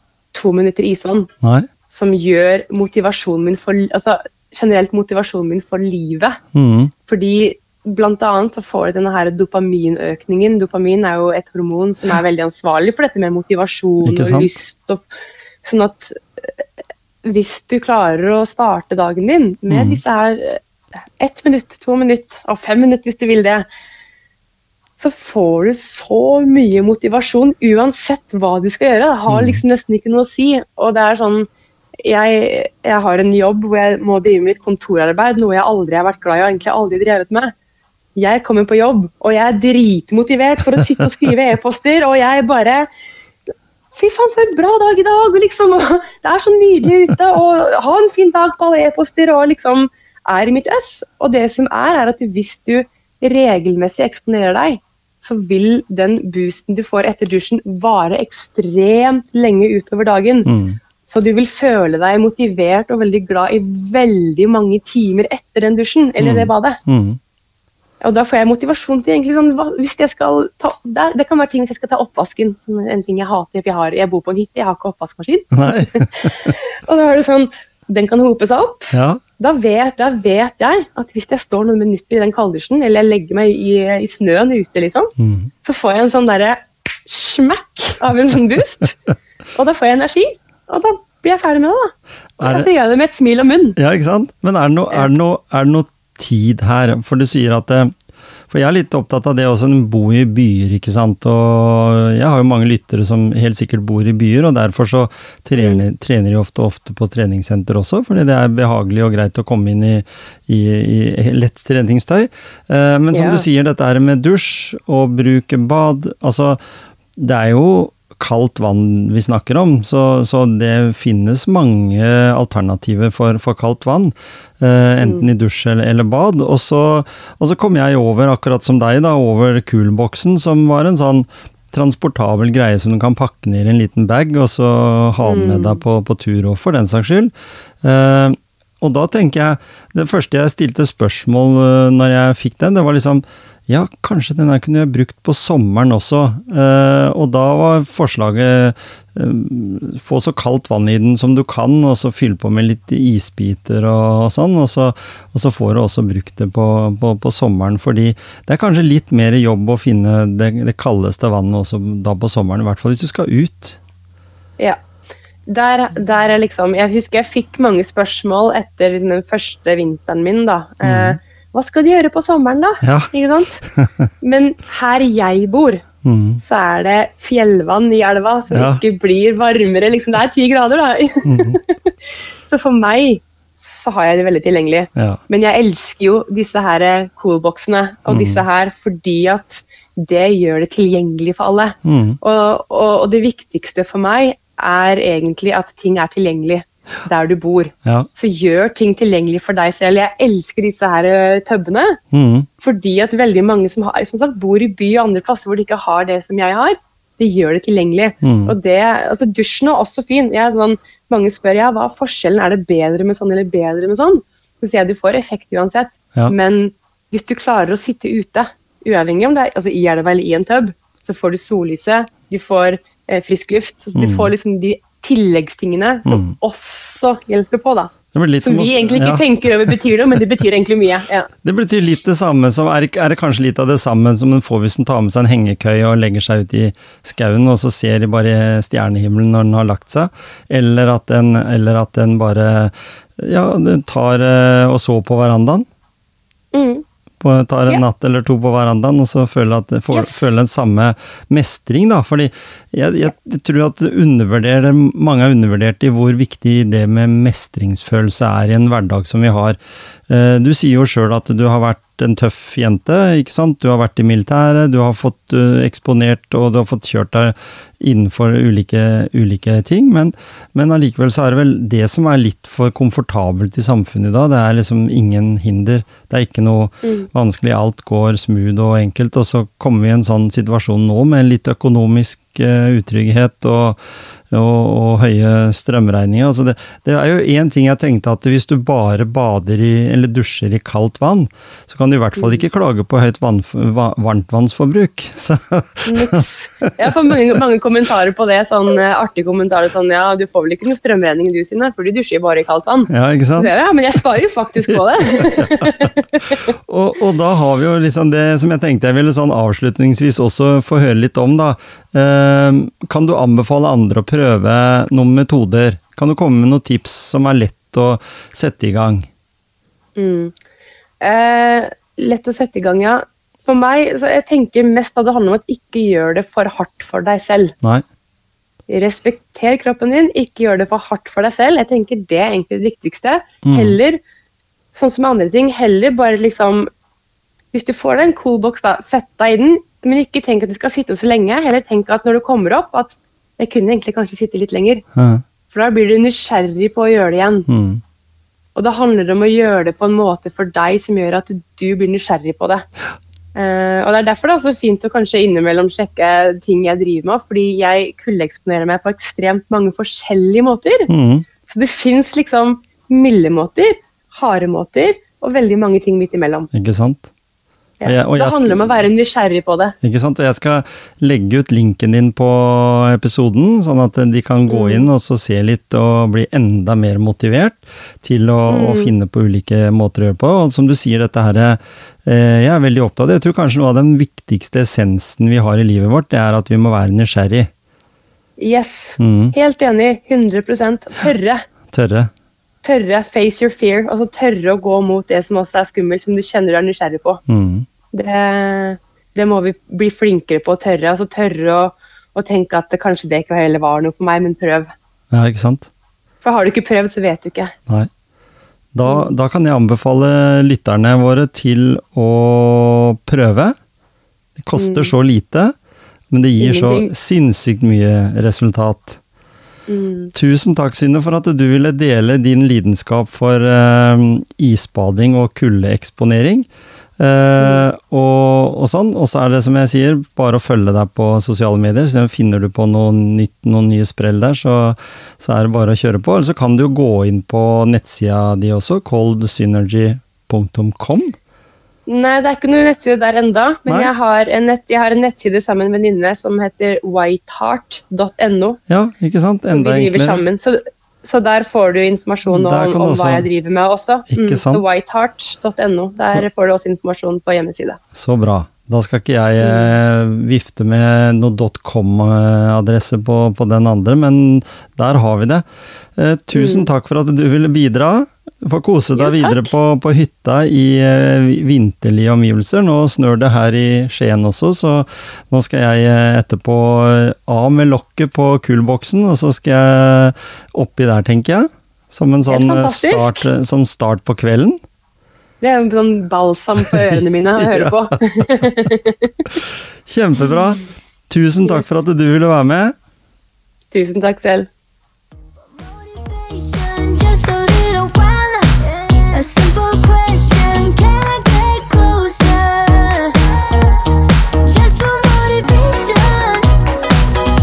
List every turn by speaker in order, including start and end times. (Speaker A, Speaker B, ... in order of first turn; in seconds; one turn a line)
Speaker A: 0.3-1.3
Speaker B: 1.4-1.7
Speaker A: 1.9-6.4
Speaker B: 6.5-6.9
Speaker A: 7.1-15.1
Speaker B: 14.0-14.5
Speaker A: 15.6-16.6
Speaker A: 17.2-20.6
Speaker B: 19.7-20.0
Speaker A: 21.2-23.7
Speaker A: 25.0-31.5
Speaker B: 29.3-29.6
Speaker A: 32.0-37.5
Speaker A: 38.2-42.9
Speaker A: 43.9-60.5
Speaker B: 60.5-60.8
Speaker A: 61.0-66.8
Speaker B: 66.2-67.2
Speaker A: 68.0-89.0
Speaker B: 75.5-76.5
Speaker B: 78.9-79.2
Speaker B: 85.2-85.5
Speaker A: 89.5-93.8
Speaker B: 92.4-92.7
Speaker B: 93.8-97.9
Speaker B: 98.5-116.6
Speaker A: 105.6-105.8
Speaker A: 113.1-113.4
Speaker B: 117.2-163.8
Speaker A: 125.0-125.3
Speaker A: 135.2-135.8
Speaker A: 165.5-173.6
Speaker B: 170.8-171.2
Speaker B: 172.8-173.1
Speaker B: 173.6-174.1
Speaker A: 174.2-175.8
Speaker B: 176.0-176.4
Speaker A: 176.4-181.9
Speaker B: 178.5-178.8
Speaker B: 181.3-181.6
Speaker A: 182.4-202.0
Speaker B: 188.1-188.4
Speaker B: 191.8-192.2
Speaker B: 202.1-202.5
Speaker A: 202.6-231.3
Speaker B: 208.2-208.6
Speaker B: 224.0-224.3
Speaker B: 226.1-226.4
Speaker B: 228.1-229.8
Speaker B: 231.4-245.7
Speaker A: 246.5-246.8
Speaker B: 247.2-283.8
Speaker A: 249.9-250.3
Speaker A: 276.8-277.1
Speaker B: 284.3-296.9
Speaker A: 292.2-292.4
Speaker A: 295.9-306.5
Speaker B: 302.9-303.5
Speaker B: 304.7-319.1
Speaker A: 320.0-320.4
Speaker A: 321.0-327.6
Speaker A: 328.7-334.0
Speaker B: 333.4-333.8
Speaker A: 334.7-336.7
Speaker A: 337.5-344.8
Speaker B: 344.9-345.2
Speaker A: 345.5-347.5
Speaker B: 347.5-347.8
Speaker A: 348.6-352.7
Speaker A: 353.4-360.9
Speaker B: 360.9-361.3
Speaker A: 361.5-366.5
Speaker B: 366.5-367.1
Speaker A: 367.8-369.8
Speaker B: 367.9-368.8
Speaker B: 369.8-387.5
Speaker A: 374.5-374.9
Speaker A: 378.5-378.9
Speaker A: 388.4-391.4
Speaker B: 389.0-389.3
Speaker B: 391.7-392.1
Speaker A: 392.6-397.2
Speaker B: 397.3-397.7
Speaker A: 397.9-404.7
Speaker B: 405.1-405.7
Speaker A: 406.2-407.5
Speaker B: 408.7-413.6
Speaker A: 408.9-409.1
Speaker B: 414.4-415.6
Speaker A: 414.6-414.9
Speaker B: 416.1-419.0
Speaker A: 416.4-416.9
Speaker A: 419.7-420.1
Speaker B: 420.1-426.5
Speaker B: 427.0-441.2
Speaker A: 427.4-427.7
Speaker A: 441.9-448.6
Speaker B: 448.7-450.2
Speaker A: 449.5-457.8
Speaker B: 452.3-453.3
Speaker B: 454.1-454.6
Speaker B: 457.9-465.4
Speaker A: 459.4-459.7
Speaker B: 466.0-484.6
Speaker A: 466.3-466.7
Speaker A: 468.9-469.5
Speaker A: 482.3-483.3
Speaker A: 485.4-489.2
Speaker B: 486.6-487.8
Speaker B: 489.9-492.8
Speaker A: 493.7-494.5
Speaker C: 495.4-503.8
Speaker C: 504.4-506.9